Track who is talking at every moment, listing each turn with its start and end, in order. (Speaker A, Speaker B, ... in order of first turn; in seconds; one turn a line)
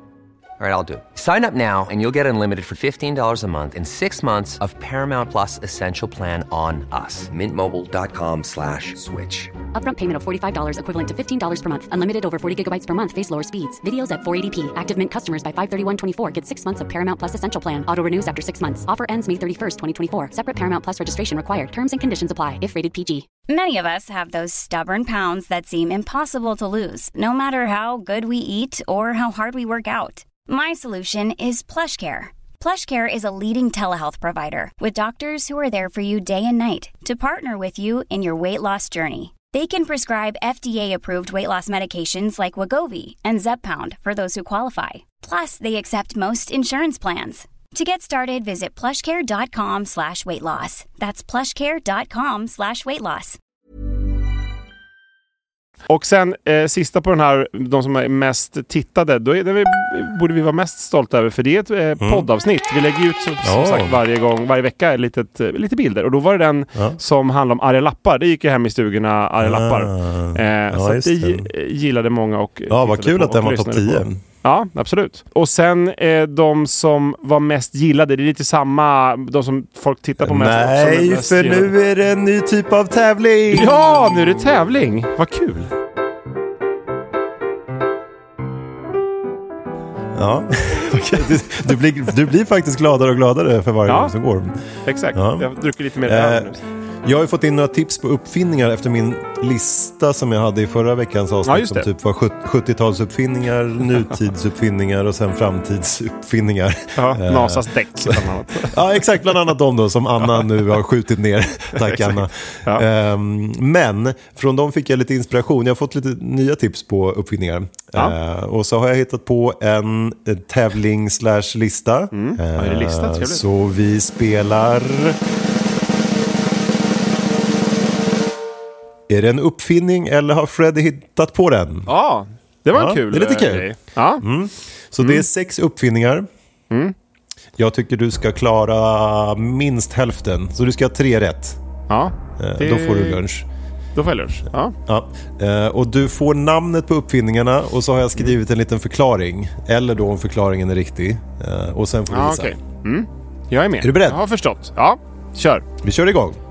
Speaker A: 0.6-9.6
Speaker B: 9.8-23.3
Speaker C: 23.5-53.4
Speaker D: 55.9-81.7
Speaker E: 62.0-62.3
Speaker E: 63.4-63.9
Speaker E: 69.4-71.5
Speaker E: 72.7-74.2
Speaker E: 80.2-83.8
Speaker D: 83.5-85.7
Speaker E: 90.2-94.6
Speaker D: 93.9-94.1
Speaker D: 94.8-96.6
Speaker E: 95.1-95.5
Speaker E: 96.0-125.2
Speaker D: 101.5-101.9
Speaker D: 107.0-108.8
Speaker D: 111.8-112.8
Speaker D: 122.1-123.4
Speaker E: 129.1-131.9
Speaker D: 131.9-134.2
Speaker E: 132.7-136.3
Speaker E: 137.6-141.6
Speaker D: 141.9-143.2
Speaker E: 142.4-143.5
Speaker D: 143.9-144.8
Speaker E: 144.9-152.6
Speaker D: 152.1-155.7
Speaker E: 153.8-154.2
Speaker E: 155.8-156.4